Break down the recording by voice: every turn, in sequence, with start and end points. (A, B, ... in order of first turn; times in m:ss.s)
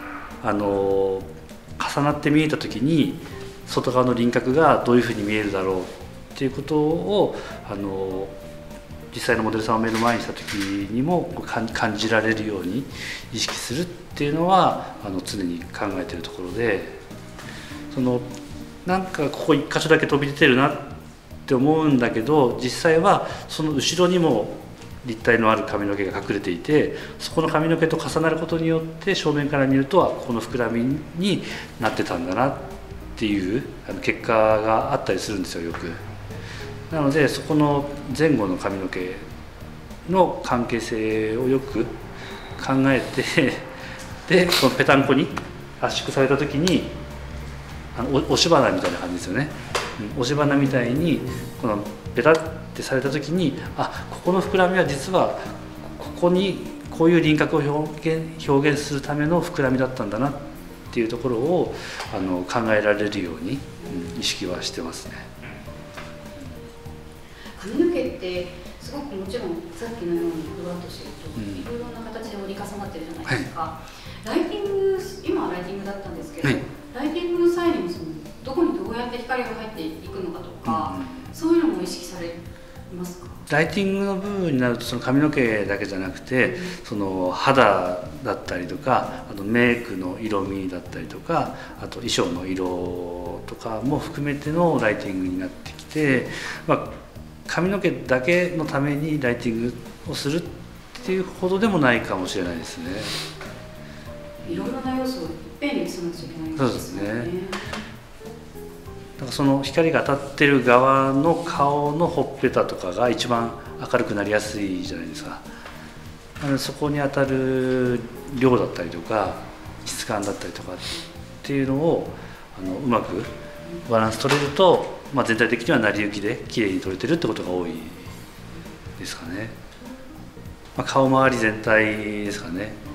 0:00.4-0:08.4 A
0:09.1-0:17.0 A
0:17.9-0:18.3 A
0:18.8-0:21.0 A
0:21.5-0:36.0 A
0:36.9-0:39.3 A
0:40.1-0:42.0 A
0:42.6-0:43.7 A
0:44.3-0:47.0 A
0:48.0-1:05.3 A
1:07.6-1:23.4 B
1:11.4-1:11.7 A
1:20.6-1:21.3 A
1:23.5-1:37.0 A
1:26.4-1:26.8 B
1:37.5-1:43.2 A
1:44.4-1:44.7 A
1:44.4-1:47.8 B
1:46.6-1:47.3 A
1:49.2-1:55.4 A
1:56.4-2:03.3 A
2:03.9-2:08.1 A
2:09.0-2:09.6 A
2:10.8-2:12.8 A